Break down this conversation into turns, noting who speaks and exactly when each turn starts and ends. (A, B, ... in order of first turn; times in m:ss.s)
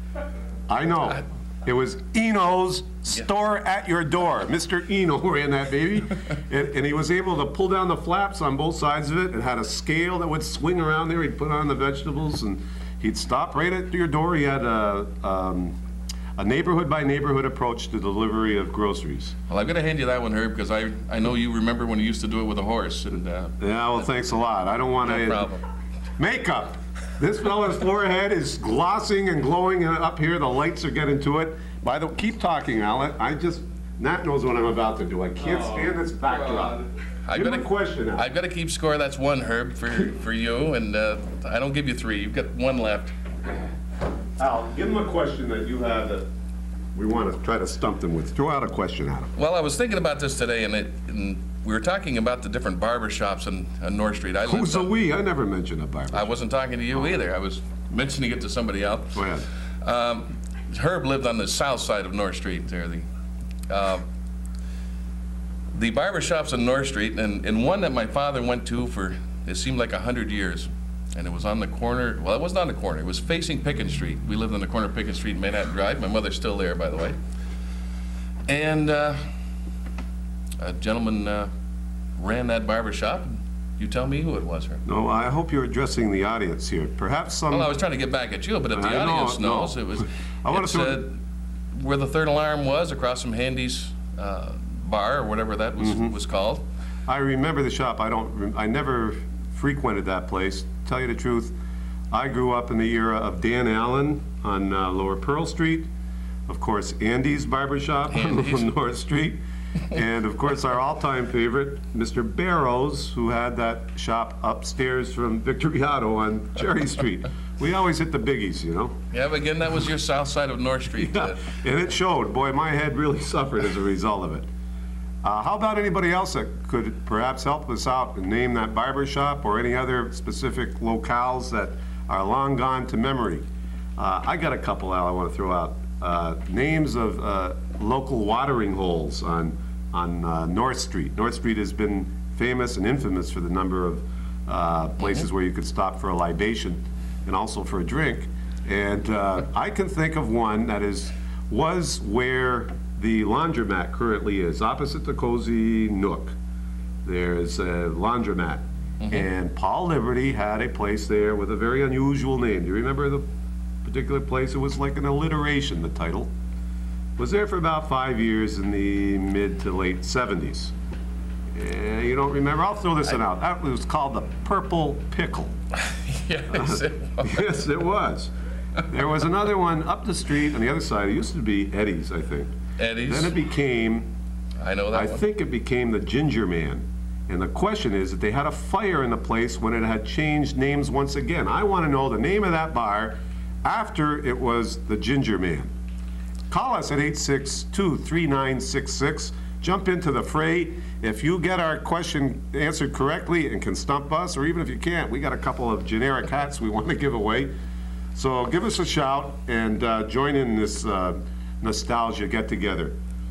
0:00.7-0:15.8 A
0:16.4-0:19.4 A
0:19.5-0:23.6 B
0:23.6-0:25.5 A
0:25.0-0:25.6 B
0:26.2-0:36.8 A
0:37.2-0:43.1 B
0:37.3-0:38.3 A
0:44.4-0:46.3 A
0:46.9-0:49.3 A
0:49.4-0:54.9 B
0:54.4-0:56.4 A
0:56.1-0:59.3 B
0:59.1-0:59.4 A
0:59.8-1:03.0 B
1:03.7-1:04.0 B
1:05.7-1:17.2 B
1:18.5-1:19.3 B
1:20.6-1:21.5 B
1:22.2-1:24.8 B
1:24.8-1:27.7 A
1:27.5-1:31.2 B
1:28.7-1:31.0 A
1:31.7-1:36.6 B
1:35.8-1:36.1 A
1:37.1-1:41.5 A
1:42.1-1:45.9 A
1:46.5-1:59.0 A
1:48.1-1:48.7 B
1:59.1-2:01.4 B
2:01.0-2:04.5 A
2:05.2-2:13.4 A
2:14.0-2:36.3 A
2:37.0-2:43.2 A
2:39.0-2:39.3 B
2:43.8-2:46.3 A
2:47.2-2:50.7 A
2:51.5-2:55.5 A
2:55.7-2:57.4 B
2:56.5-2:58.3 A
2:58.8-3:04.1 A
3:02.8-3:03.3 B
3:04.6-3:05.2 B
3:04.9-3:15.7 A
3:16.5-3:27.5 A
3:28.1-3:33.0 A